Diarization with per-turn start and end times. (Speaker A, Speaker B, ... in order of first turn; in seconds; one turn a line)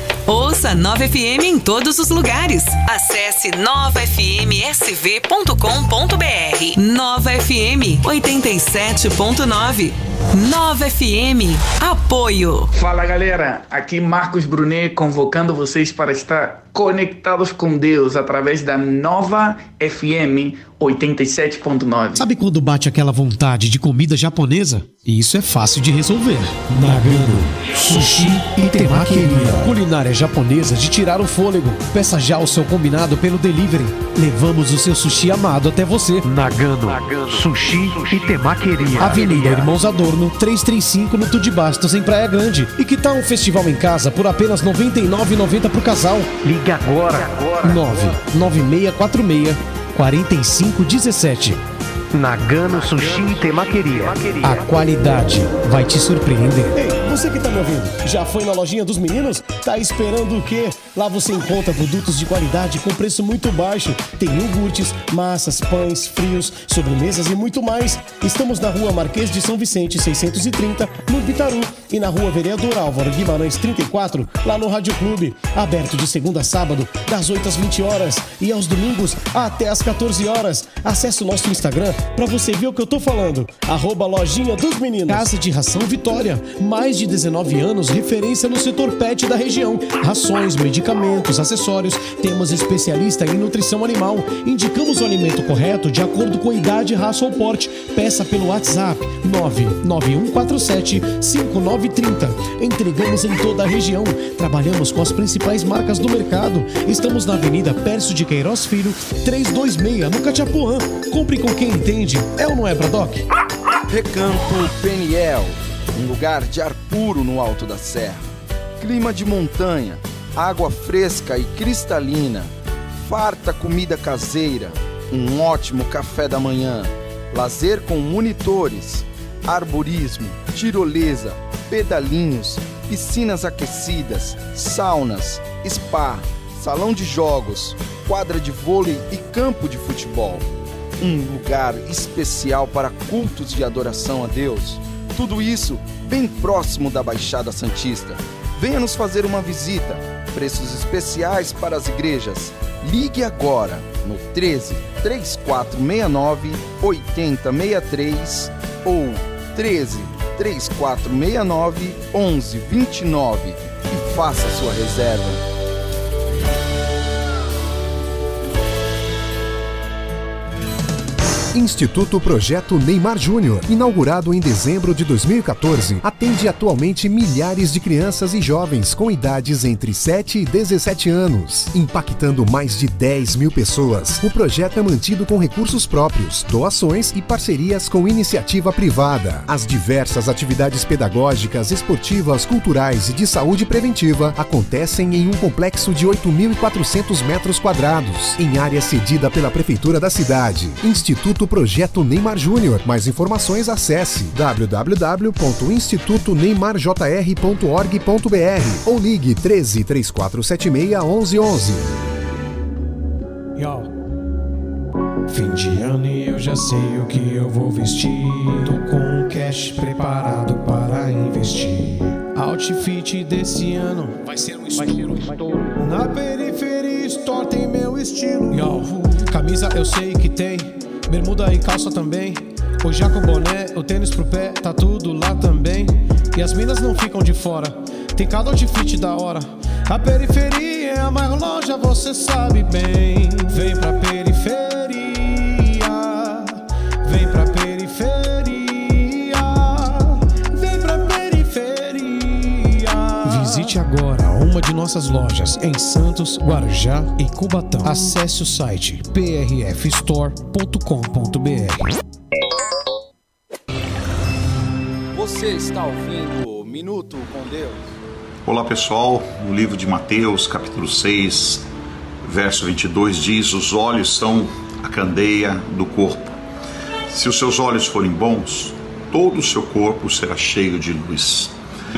Speaker A: 0.3-12.7
Speaker B: 12.7-22.2
Speaker C: 22.2-36.3
Speaker D: 36.3-39.7
Speaker C: 39.0-46.4
Speaker D: 46.5-47.5
Speaker C: 47.6-51.6
Speaker D: 52.1-54.4
Speaker C: 54.4-113.2
Speaker E: 113.9-118.2
Speaker E: 118.8-140.5
Speaker E: 141.0-165.4
Speaker F: 171.5-211.9
Speaker C: 213.6-213.9
Speaker C: 215.3-261.9
Speaker E: 265.1-267.9
Speaker G: 268.4-271.6
Speaker G: 272.2-276.4
Speaker G: 277.1-281.5